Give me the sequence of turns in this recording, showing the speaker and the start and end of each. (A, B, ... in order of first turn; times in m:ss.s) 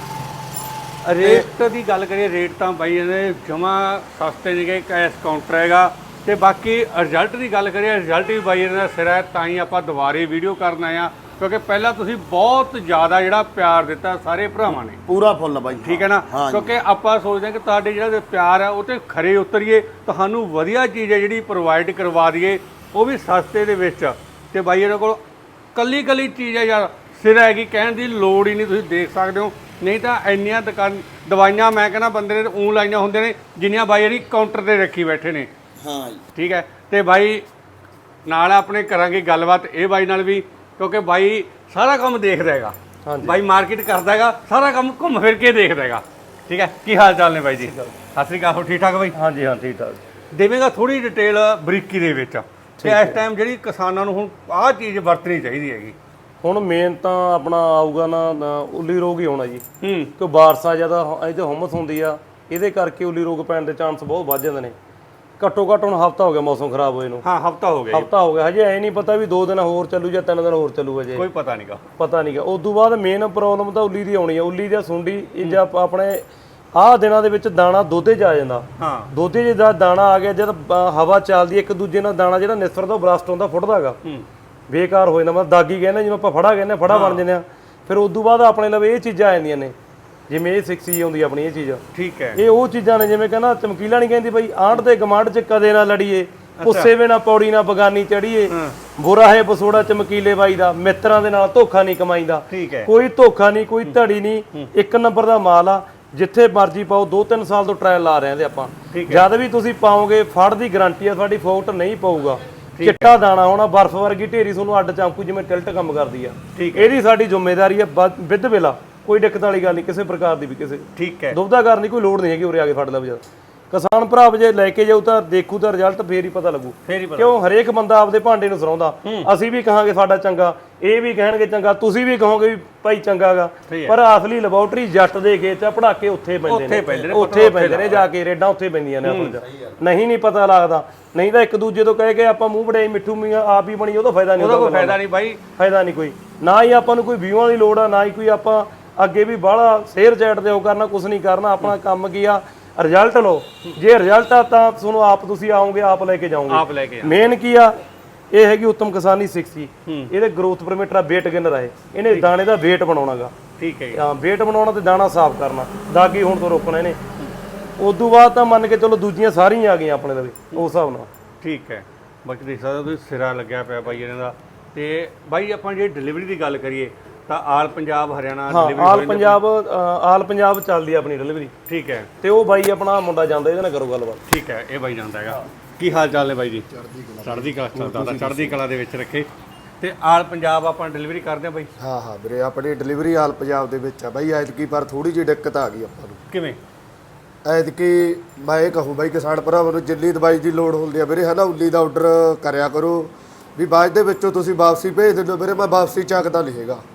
0:01.0-0:15.0 A
0:01.2-0:01.5 B
0:15.1-0:16.8 B
0:15.8-0:25.2 A
0:25.8-0:35.5 A
0:35.8-0:36.2 B
0:36.4-0:37.4 A
0:38.2-0:49.2 A
0:43.0-0:43.4 C
0:47.6-0:47.9 C
0:49.1-0:50.0 C
0:50.3-0:56.0 A
0:52.8-0:53.2 C
0:56.4-0:59.6 C
0:59.8-1:00.1 A
1:00.2-1:04.8 C
1:05.4-1:07.2 C
1:07.2-1:08.1 A
1:07.9-1:11.2 C
1:11.1-1:11.8 A
1:12.0-1:24.0 C
1:18.8-1:19.1 A
1:24.7-1:29.8 C
1:26.9-1:27.2 A
1:30.3-1:31.8 C
1:31.9-1:32.4 A
1:32.4-2:25.0 C
1:36.6-1:36.9 A
1:38.5-1:38.8 A
1:42.5-1:42.9 A
1:48.9-1:49.3 A
1:52.8-1:53.1 A
1:56.6-1:56.9 A
2:01.0-2:01.4 A
2:06.9-2:07.3 A
2:09.0-2:09.3 A
2:13.7-2:14.0 A
2:16.4-2:18.1 A
2:19.0-2:19.4 A
2:19.3-2:19.8 B
2:24.4-2:25.4 A
2:25.6-2:37.8 C
2:36.5-2:37.2 A
2:38.3-2:43.3 C
2:43.6-2:44.0 A
2:43.9-2:47.0 C
2:47.8-2:51.1 C
2:51.4-2:59.4 A
2:58.5-3:01.5 C
3:01.7-3:02.1 A
3:02.2-3:04.2 C
3:04.3-3:06.7 A
3:06.7-3:08.6 D
3:07.2-3:09.3 A
3:09.8-3:11.7 A
3:11.8-3:16.2 D
3:16.3-3:16.6 A
3:17.4-3:26.8 D